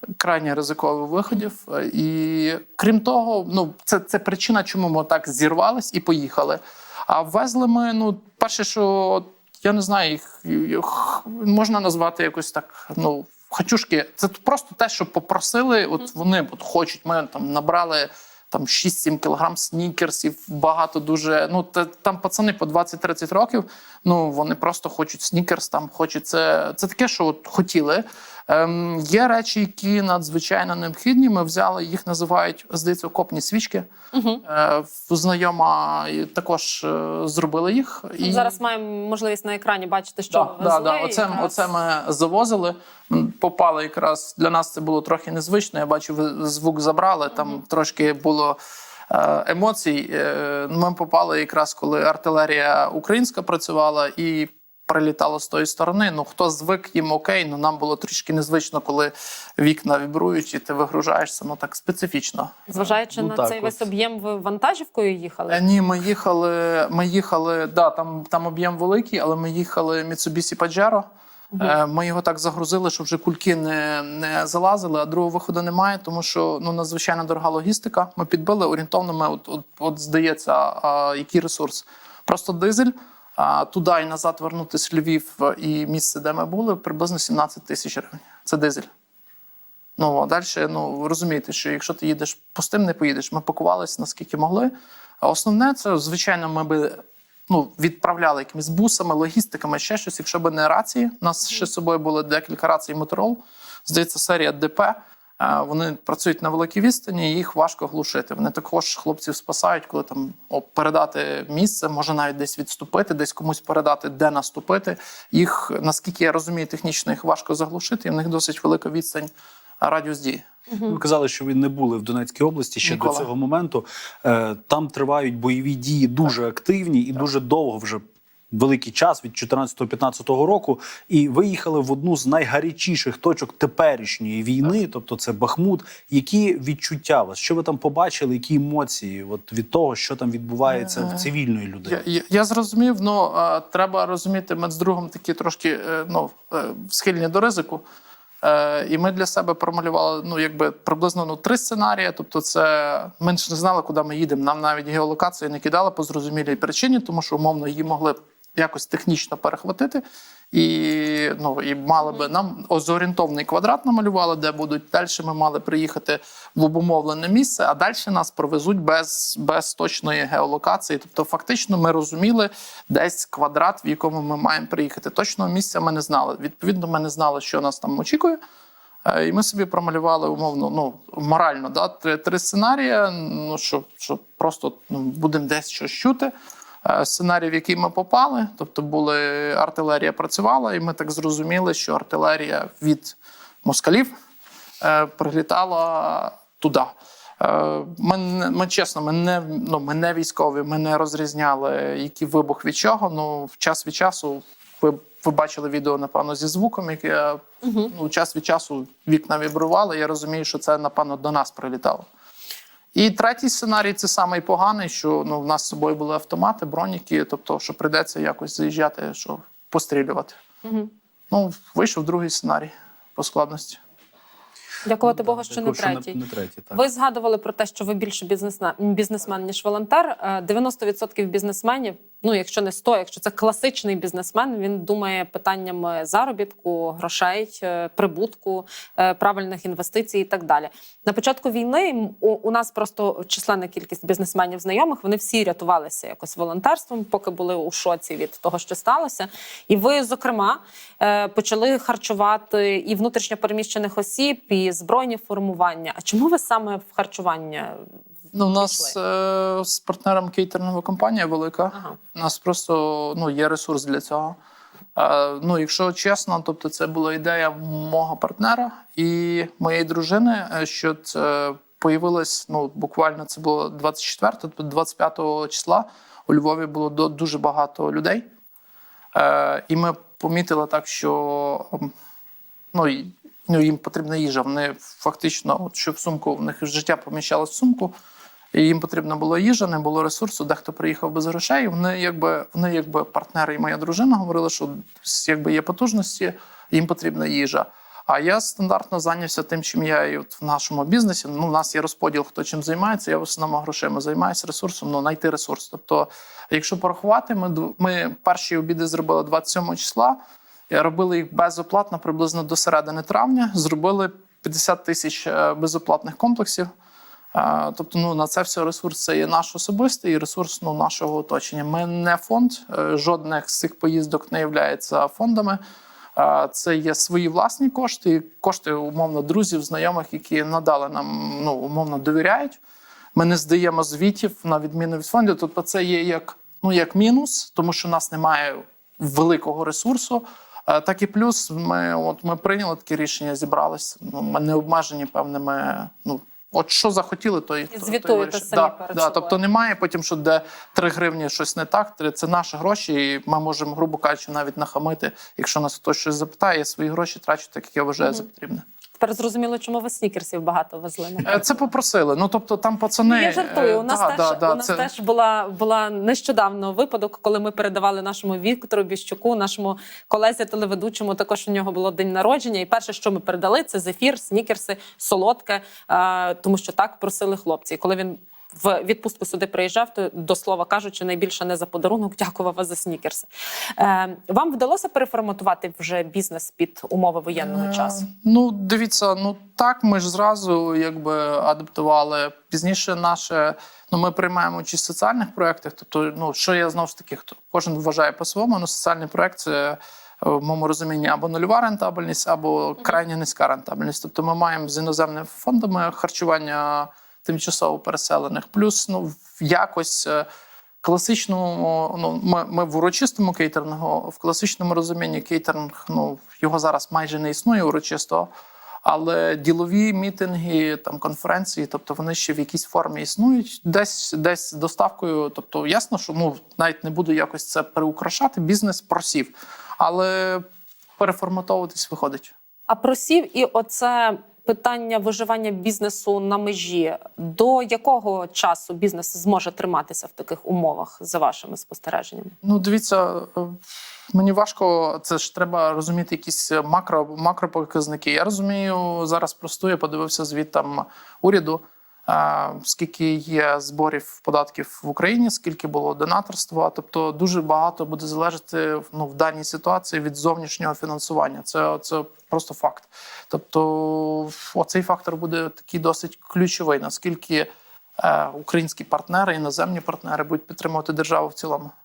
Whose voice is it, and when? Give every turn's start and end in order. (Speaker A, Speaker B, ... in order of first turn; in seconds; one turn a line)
Speaker A: 0.2-33.9
Speaker B: 34.1-34.4
Speaker A: 34.4-38.6
Speaker B: 38.2-41.7
Speaker A: 40.3-48.6
Speaker A: 49.1-63.0
Speaker B: 62.7-65.6
Speaker C: 63.1-63.8
Speaker A: 65.5-71.0
Speaker A: 71.6-88.9
Speaker A: 90.0-120.5
Speaker B: 120.7-121.0
Speaker C: 120.9-142.0
Speaker A: 122.8-123.3
Speaker A: 140.7-141.3
Speaker A: 141.8-147.8
Speaker A: 148.4-178.4
Speaker A: 179.1-186.3
Speaker A: 186.8-194.1
Speaker A: 194.8-212.1
Speaker B: 207.6-207.9
Speaker A: 212.9-220.4
Speaker B: 220.6-220.9
Speaker A: 221.3-223.8
Speaker B: 224.8-226.2
Speaker C: 225.0-226.8
Speaker B: 226.7-257.9
Speaker A: 258.3-264.4
Speaker B: 258.5-258.9
Speaker A: 264.9-278.2
Speaker A: 279.1-281.9
Speaker A: 282.7-287.9
Speaker A: 288.5-310.2
Speaker A: 310.7-316.7
Speaker A: 317.3-325.6
Speaker A: 326.2-332.6
Speaker A: 333.1-358.6
Speaker B: 347.7-349.4
Speaker B: 359.0-361.6
Speaker A: 361.2-364.9
Speaker B: 363.1-388.0
Speaker A: 387.4-410.3
Speaker A: 410.8-418.3
Speaker A: 418.8-430.4
Speaker A: 431.0-432.3
Speaker B: 432.7-442.3
Speaker A: 442.4-443.6
Speaker A: 444.1-467.5
Speaker A: 468.0-471.7